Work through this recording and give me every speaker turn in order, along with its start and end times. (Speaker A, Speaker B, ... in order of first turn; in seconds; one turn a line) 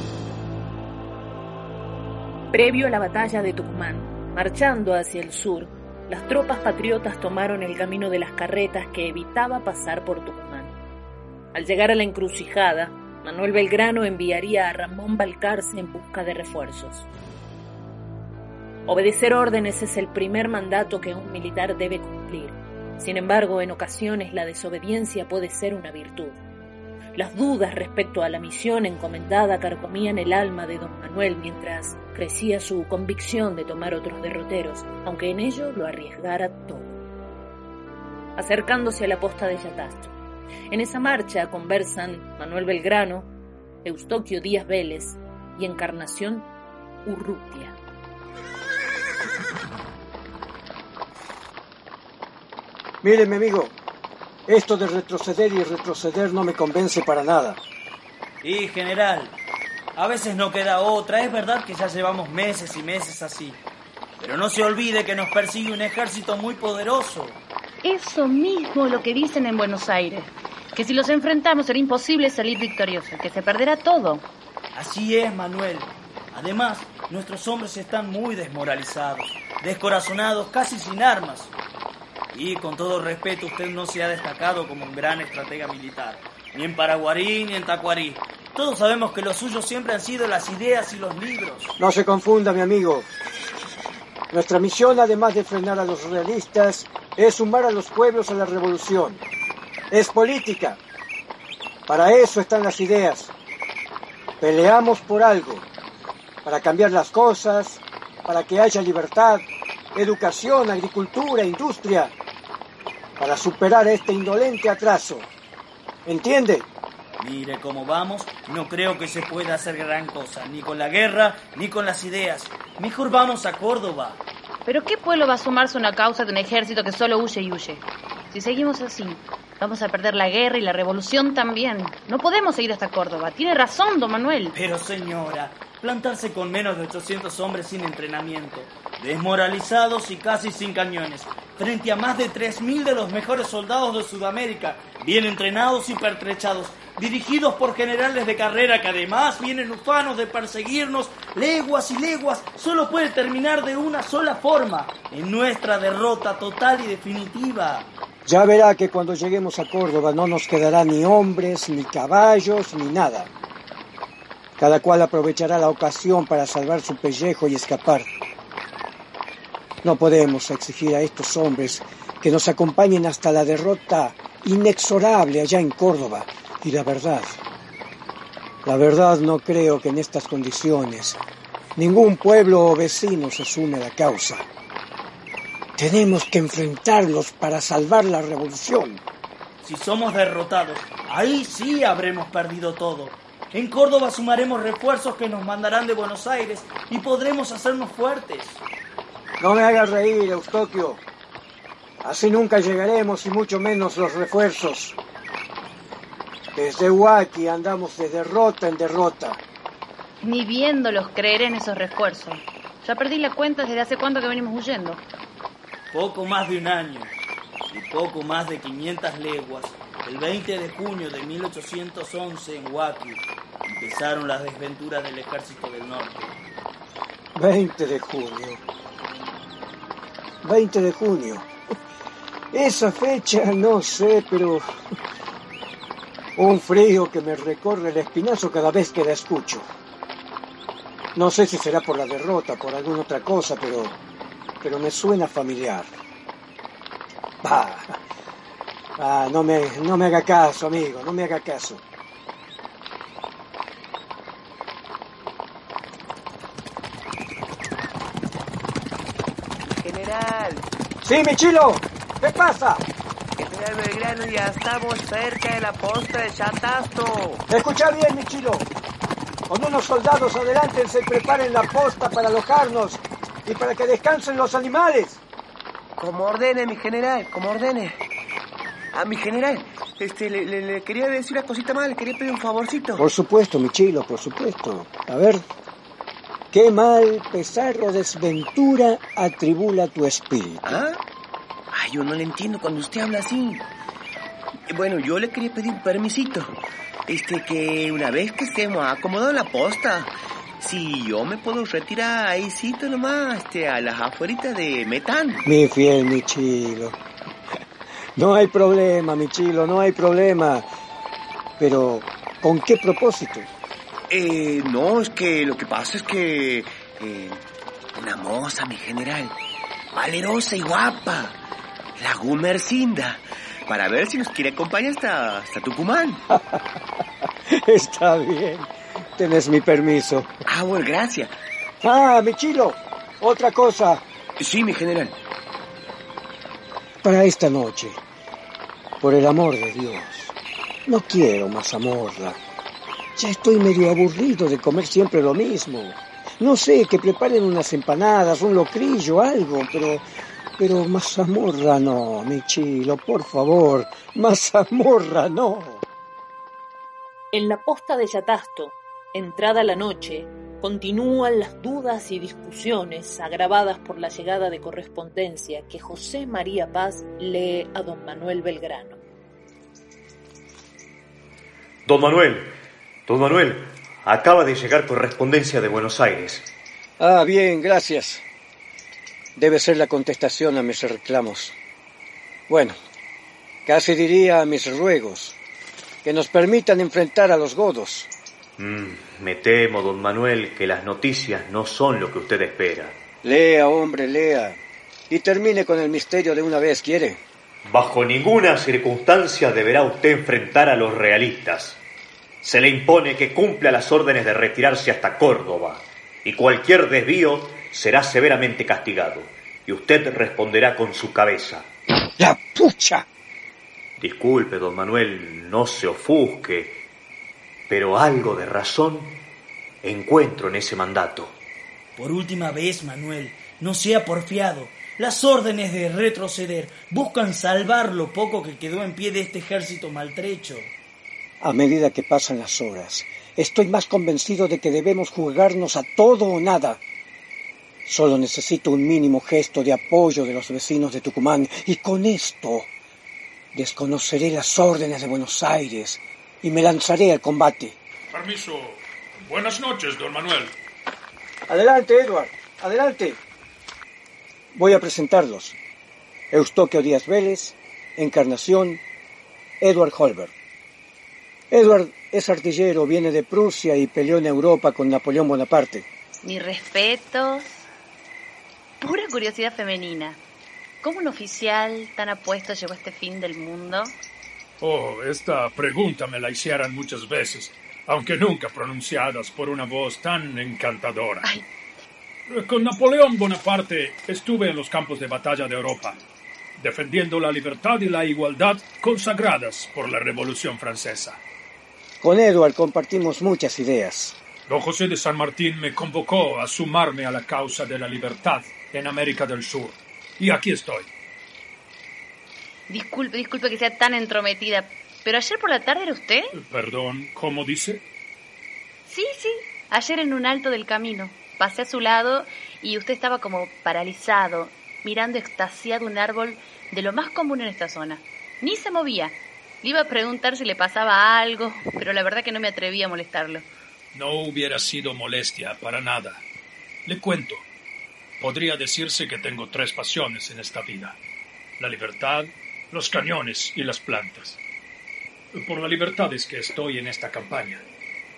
Speaker A: 2.5-10.7
Speaker A: 11.5-17.1
Speaker A: 18.9-26.4
Speaker A: 27.1-37.0
Speaker A: 38.4-40.1
Speaker A: 40.7-43.3
Speaker A: 43.9-46.5
Speaker A: 47.0-47.8
Speaker B: 53.0-53.7
Speaker B: 54.5-57.6
Speaker C: 58.4-59.3
Speaker C: 60.0-63.6
Speaker C: 64.2-67.4
Speaker D: 67.8-74.3
Speaker C: 74.8-81.5
Speaker C: 82.3-91.8
Speaker B: 91.8-93.1
Speaker B: 94.3-99.2
Speaker B: 99.9-100.8
Speaker B: 101.9-103.3
Speaker B: 104.4-105.7
Speaker B: 106.5-112.1
Speaker B: 113.2-115.3
Speaker B: 116.0-116.7
Speaker C: 117.2-124.2
Speaker D: 124.7-134.6
Speaker C: 134.5-157.9
Speaker B: 158.3-163.3
Speaker B: 164.6-168.1
Speaker B: 169.8-177.4
Speaker B: 178.6-181.2
Speaker B: 181.8-184.5
Speaker B: 185.8-189.0
Speaker C: 189.6-198.6
Speaker B: 199.4-201.0
Speaker B: 202.0-205.0
Speaker B: 206.6-209.4
Speaker D: 210.2-215.0
Speaker C: 215.9-217.1
Speaker C: 217.7-226.3
Speaker B: 227.3-228.6
Speaker B: 230.4-231.5
Speaker B: 232.5-234.7
Speaker B: 236.4-239.7
Speaker B: 241.2-244.0
Speaker B: 244.6-245.9
Speaker B: 247.4-248.0
Speaker B: 249.0-251.8
Speaker E: 259.8-260.7
Speaker B: 261.0-262.9
Speaker E: 263.4-267.4
Speaker B: 267.5-268.7
Speaker B: 269.5-275.2
Speaker E: 276.0-278.0
Speaker E: 278.9-283.1
Speaker B: 283.0-285.4
Speaker B: 286.5-290.8
Speaker E: 290.6-291.0
Speaker E: 291.7-293.7
Speaker E: 294.7-305.5
Speaker B: 305.4-307.0
Speaker B: 308.2-310.6
Speaker B: 311.6-313.5
Speaker E: 314.1-317.4
Speaker E: 317.9-319.4
Speaker E: 319.9-321.4
Speaker E: 322.0-326.2
Speaker B: 326.3-326.6
Speaker B: 327.5-330.3
Speaker E: 330.5-331.4
Speaker B: 331.8-334.0
Speaker E: 334.4-335.2
Speaker B: 337.0-338.0
Speaker B: 339.0-340.4
Speaker B: 340.9-342.4
Speaker B: 343.2-350.1
Speaker B: 350.6-355.8
Speaker A: 357.3-369.0
Speaker F: 371.9-372.6
Speaker F: 373.1-376.5
Speaker B: 377.0-378.2
Speaker B: 379.4-381.6
Speaker B: 382.5-382.8
Speaker B: 383.7-385.4
Speaker B: 386.0-388.1
Speaker F: 388.6-393.0
Speaker B: 393.2-394.6
Speaker B: 395.1-397.2
Speaker F: 397.7-401.8
Speaker F: 402.4-411.7
Speaker B: 412.2-413.1
Speaker F: 414.0-416.8
Speaker F: 417.7-419.2
Speaker F: 419.8-421.4
Speaker C: 422.0-430.7
Speaker B: 431.4-436.8
Speaker B: 437.9-442.7
Speaker B: 443.5-447.8
Speaker G: 448.1-450.6
Speaker B: 451.5-453.2
Speaker B: 454.5-455.6
Speaker B: 456.3-458.8
Speaker B: 459.6-460.3
Speaker B: 461.5-465.9
Speaker D: 466.2-467.6
Speaker D: 468.8-470.2
Speaker D: 470.8-473.9
Speaker G: 474.6-481.3
Speaker G: 482.3-486.0
Speaker G: 486.6-491.2
Speaker B: 492.0-494.2
Speaker G: 494.5-500.9
Speaker D: 502.7-506.3
Speaker G: 506.4-507.8
Speaker D: 508.9-523.5
Speaker G: 523.9-526.2
Speaker G: 526.9-527.4
Speaker G: 528.2-531.0
Speaker G: 531.6-534.4
Speaker G: 535.3-537.6